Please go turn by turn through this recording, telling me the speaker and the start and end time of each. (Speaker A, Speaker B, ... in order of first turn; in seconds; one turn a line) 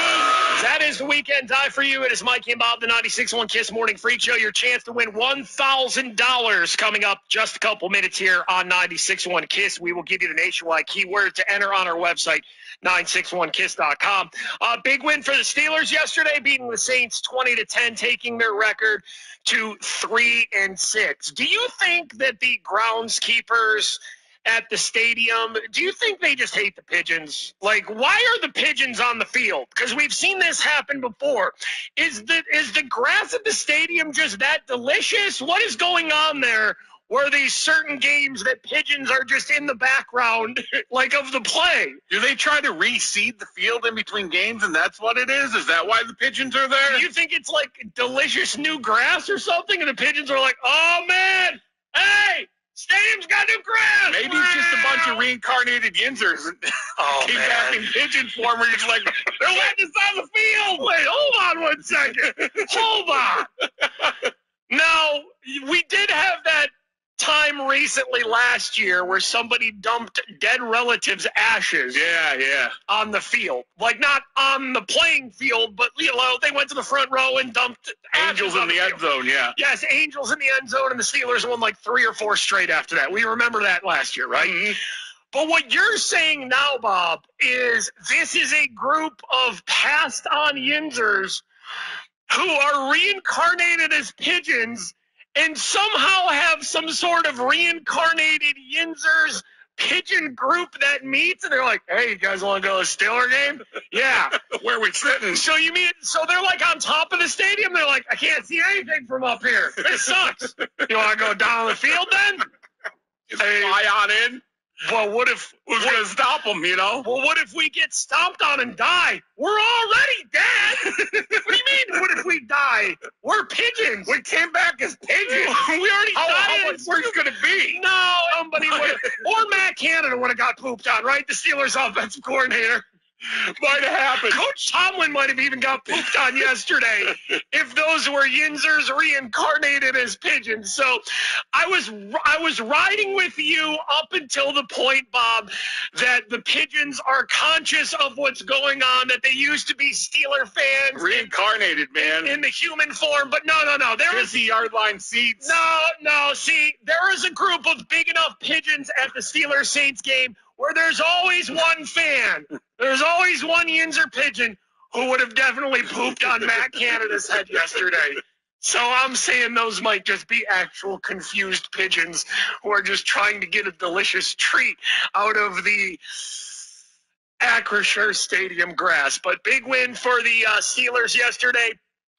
Speaker A: 0.5-42.0
Speaker B: 42.1-47.1
Speaker A: 46.9-55.2
Speaker B: 54.1-56.6
Speaker A: 57.0-58.0
Speaker B: 57.2-60.9
Speaker A: 60.8-63.5
Speaker B: 62.3-62.6
Speaker A: 64.7-72.0
Speaker B: 71.9-72.8
Speaker A: 72.9-79.0
Speaker B: 78.2-79.5
Speaker A: 79.6-84.7
Speaker B: 84.3-84.8
Speaker A: 85.3-91.4
Speaker A: 92.3-104.4
Speaker B: 104.5-105.4
Speaker A: 105.3-112.5
Speaker B: 113.3-114.4
Speaker A: 113.4-113.8
Speaker A: 114.8-116.0
Speaker B: 115.7-117.1
Speaker A: 117.0-124.2
Speaker B: 124.1-127.8
Speaker A: 125.2-132.8
Speaker B: 128.7-128.9
Speaker B: 133.6-134.4
Speaker A: 134.3-141.0
Speaker A: 141.5-151.3
Speaker B: 151.0-152.3
Speaker A: 152.0-154.4
Speaker B: 154.1-155.5
Speaker A: 155.4-176.0
Speaker A: 177.4-181.8